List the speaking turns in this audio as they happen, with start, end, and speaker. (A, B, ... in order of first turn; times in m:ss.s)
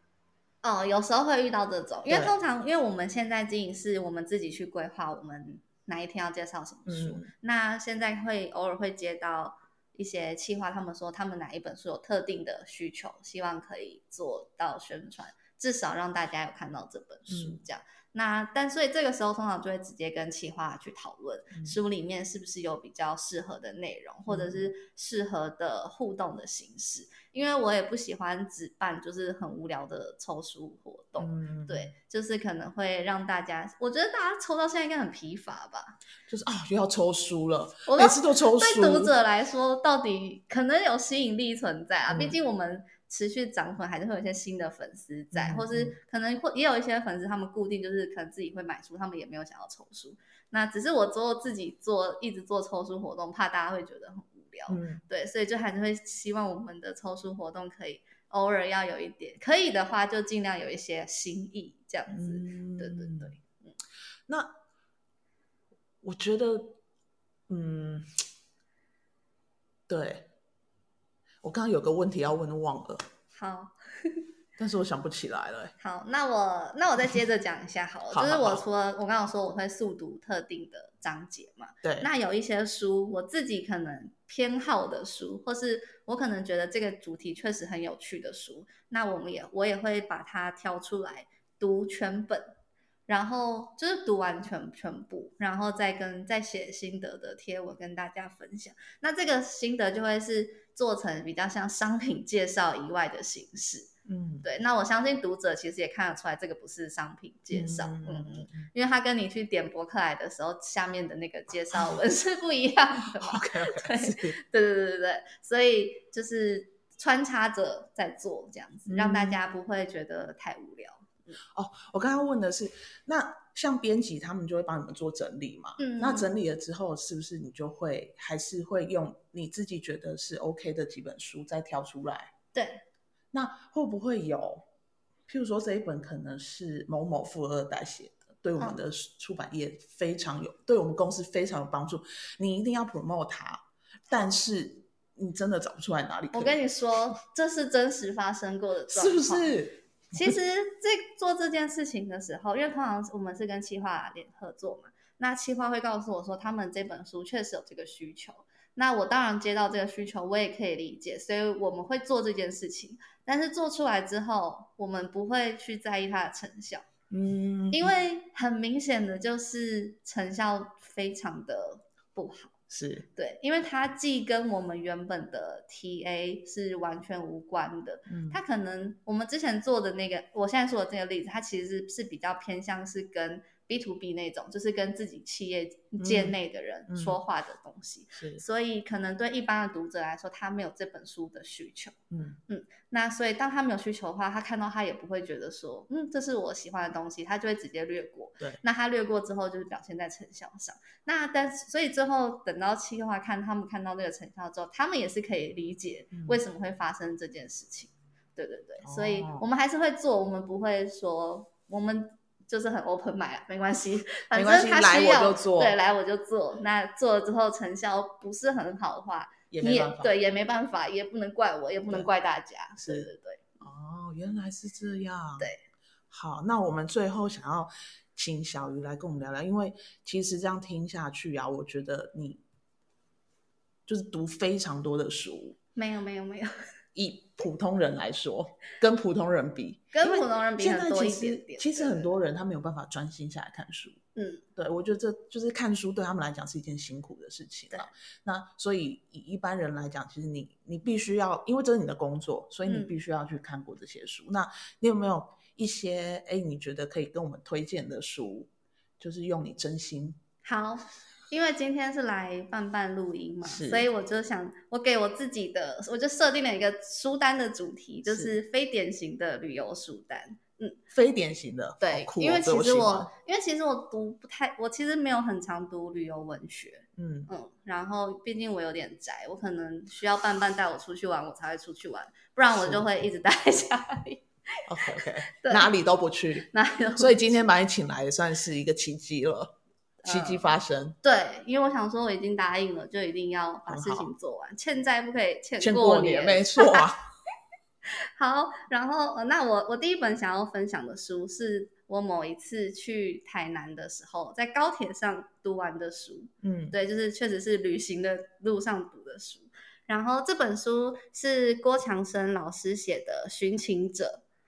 0:00.6-0:36.0 A
0:02.1-0:02.4 B
0:06.9-0:07.3 B
0:17.3-0:17.6 B
0:24.3-0:24.7 B
0:31.2-0:31.9 B
0:36.3-0:39.1 B
0:37.9-1:03.7 A
0:42.1-0:42.4 B
0:45.3-0:46.0 B
0:54.7-0:55.0 B
1:02.1-1:03.4 B
1:04.3-1:04.6 B
1:06.0-1:06.8 B
1:07.5-1:08.1 B
1:09.9-1:10.3 B
1:11.4-1:13.0 B
1:13.3-1:14.2 A
1:14.6-1:15.7 B
1:15.8-1:32.6 A
1:18.1-1:18.6 B
1:21.8-1:22.1 B
1:33.1-1:43.9 A
1:44.1-1:44.4 B
1:44.4-2:01.4 A
1:47.5-1:48.7 B
1:51.7-1:52.0 B
1:53.2-1:54.4 B
1:58.9-1:59.4 B
2:01.5-2:12.3 B
2:05.8-2:06.3 A
2:12.5-2:12.8 A
2:13.3-2:14.6 B
2:15.3-2:26.6 B
2:26.3-2:29.5 A
2:28.9-2:30.4 B
2:30.1-2:46.8 A
2:47.1-2:47.9 B
2:47.7-2:52.6 A
2:52.7-2:53.1 B
2:53.2-3:12.0 A
2:58.1-2:58.4 B
3:06.0-3:06.4 B
3:06.9-3:07.2 B
3:08.2-3:08.4 B
3:12.1-3:12.4 B
3:12.5-3:43.5 A
3:26.1-3:26.4 B
3:28.8-3:29.5 B
3:34.3-3:35.8 B
3:39.5-3:40.2 B
3:42.8-3:43.1 B
3:43.6-3:45.5 B
3:46.1-3:52.4 B
3:53.9-3:55.6 B
3:55.8-3:56.7 A
3:57.0-4:04.0 B
3:59.9-4:02.1 A
4:04.2-4:04.4 A
4:04.6-4:20.2 B
4:12.7-4:12.9 A
4:20.4-4:30.8 A
4:23.4-4:23.9 B
4:28.1-4:28.4 B
4:30.9-4:33.1 B
4:31.8-4:45.7 A
4:37.0-4:37.3 B
4:42.6-4:42.9 B
4:44.7-4:49.6 B
4:46.5-4:47.5 A
4:50.0-4:50.4 A
4:50.1-4:51.0 B
4:51.0-4:56.9 A
4:53.7-4:54.1 B
4:55.6-4:57.0 B
4:58.2-5:14.2 A
5:06.4-5:06.8 B